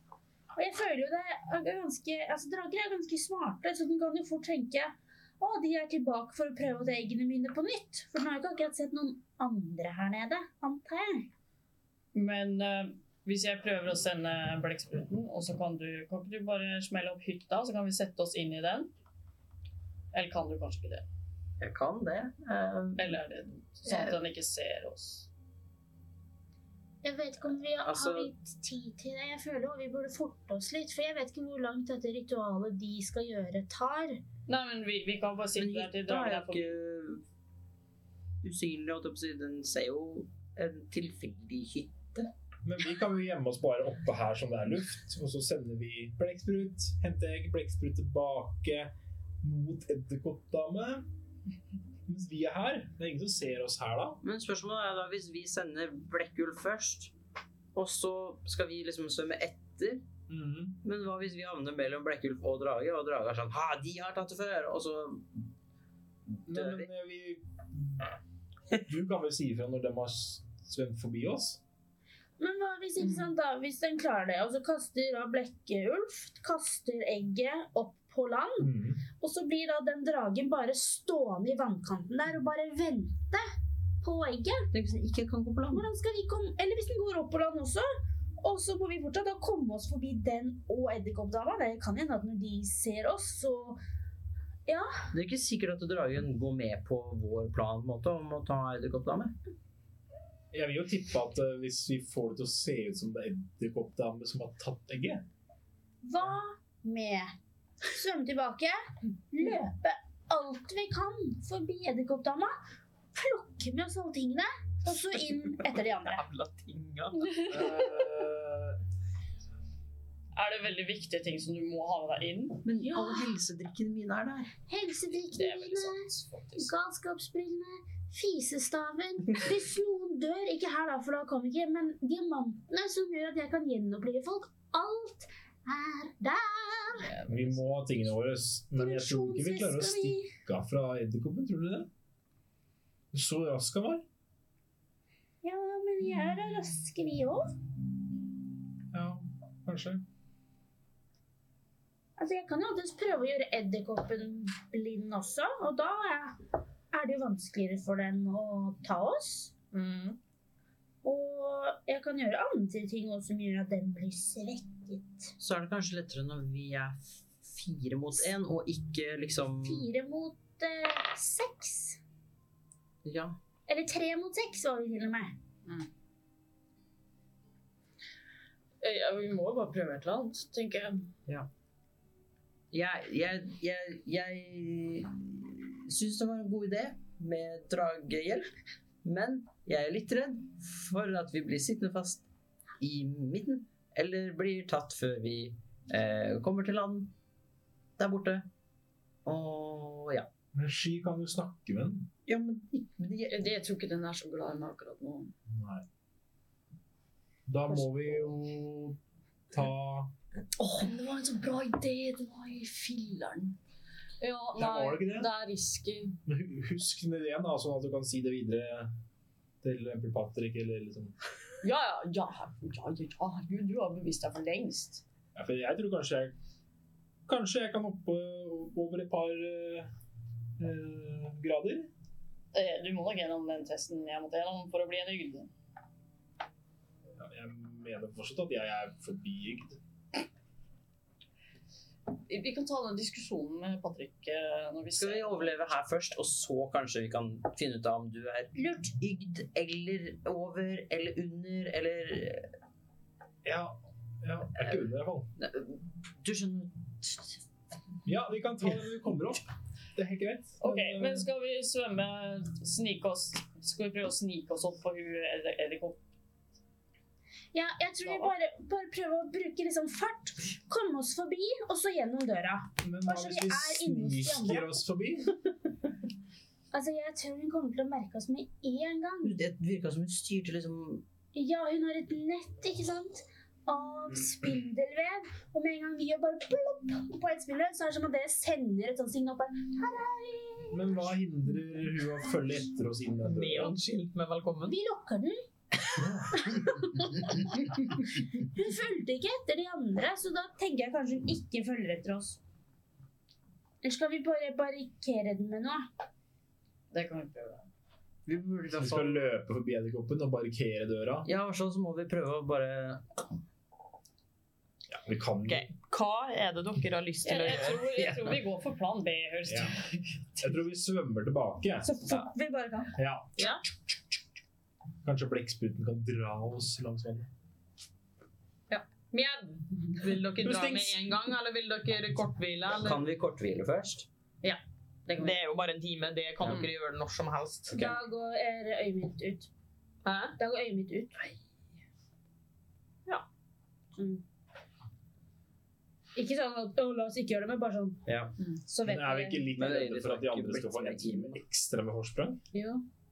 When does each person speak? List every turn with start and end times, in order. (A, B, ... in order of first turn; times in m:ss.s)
0:00.5-0:11.3 A
0:12.1-0:18.9 B
0:20.1-0:21.0 B
0:21.6-0:23.1 C
0:23.0-0:25.3 B
0:23.8-0:24.2 C
0:27.0-0:34.2 A
0:27.8-0:28.3 C
0:34.5-0:36.7 B
0:35.6-0:37.2 C
0:38.4-0:42.3 C
0:42.6-0:51.1 D
0:52.1-0:54.2 D
0:54.2-0:57.1 C
0:57.7-1:00.0 C
1:00.3-1:00.8 D
1:00.8-1:05.3 C
1:06.3-1:06.9 C
1:06.5-1:08.1 D
1:08.7-1:11.6 D
1:12.4-1:23.5 A
1:13.0-1:13.3 B
1:18.6-1:19.0 D
1:24.0-1:24.7 A
1:24.7-1:25.8 C
1:25.7-1:27.9 A
1:28.4-1:33.8 A
1:34.6-1:34.9 A
1:35.1-1:39.3 C
1:40.5-1:45.2 D
1:46.0-1:47.3 A
1:47.9-1:48.8 A
1:49.3-1:52.5 A
1:53.1-1:56.2 A
1:56.0-1:57.4 E
1:57.2-1:58.0 B
1:57.4-1:58.8 D
2:00.3-2:02.6 B
2:02.6-2:04.5 C
2:02.8-2:03.4 A
2:04.7-2:17.1 A
2:05.3-2:06.7 B
2:17.0-2:17.6 B
2:17.2-2:21.9 D
2:18.8-2:20.3 A
2:23.1-2:24.0 D
2:25.4-2:27.4 A
2:28.9-2:30.0 D
2:32.2-2:36.4 A
2:36.9-2:39.5 A
2:39.7-2:40.2 B
2:41.0-2:45.3 A
2:45.4-2:49.9 C
2:49.6-2:52.0 A
2:53.0-2:53.4 C
2:53.7-2:55.4 A
2:58.8-3:01.1 B
3:02.7-3:08.5 C
3:09.0-3:12.2 C
3:12.8-3:17.1 C
3:18.0-3:18.5 C
3:19.2-3:20.3 C
3:20.5-3:22.1 D
3:22.3-3:23.4 C
3:23.3-3:25.3 B
3:25.5-3:25.8 D
3:27.5-3:29.0 D
3:27.7-3:28.3 B
3:29.5-3:30.1 D
3:30.6-3:33.6 B
3:34.2-3:36.1 B
3:34.6-3:35.3 D
3:36.2-3:38.9 D
3:39.6-3:41.1 D
3:41.6-3:45.0 B
3:45.3-3:46.3 D
3:47.3-3:49.9 D
3:50.6-3:51.9 D
3:52.5-3:55.5 B
3:57.2-3:59.8 D
4:02.3-4:05.6 B
4:04.9-4:12.5 C
4:08.6-4:08.9 A
4:13.4-4:15.3 D
4:15.4-4:17.4 C
4:18.0-4:21.2 D
4:20.6-4:26.0 B
4:27.5-4:34.8 A
4:28.0-4:28.3 B
4:32.8-4:35.3 D
4:36.7-4:39.4 A
4:39.2-4:41.0 C
4:41.3-4:51.0 A
4:50.7-4:53.7 D
4:53.2-4:54.8 E
4:54.7-4:55.4 A
4:55.9-4:56.8 D
4:56.4-5:02.4 A
5:03.8-5:05.9 A
5:06.9-5:07.7 B
5:08.2-5:09.2 C
5:08.7-5:11.3 D
5:11.2-5:13.2 C
5:14.9-5:15.7 D
5:15.5-5:18.0 E
5:17.2-5:19.8 B
5:19.4-5:22.0 D
5:21.8-5:22.9 A
5:23.0-5:23.5 D
5:23.4-5:23.6 E
5:25.0-5:27.3 D
5:28.7-5:30.0 B
5:30.0-5:33.0 E
5:30.4-5:30.9 D
5:32.7-5:34.1 C
5:34.4-5:35.3 B
5:35.2-5:37.9 E
5:36.4-5:36.7 C
5:37.7-5:39.5 A
5:40.0-5:40.4 E
5:40.4-5:41.2 A
5:44.0-5:44.2 A
5:46.1-5:48.0 A
5:48.0-5:48.3 C
5:48.6-5:49.5 A
5:48.8-5:52.4 D
5:49.6-5:51.4 C
5:52.5-5:52.8 A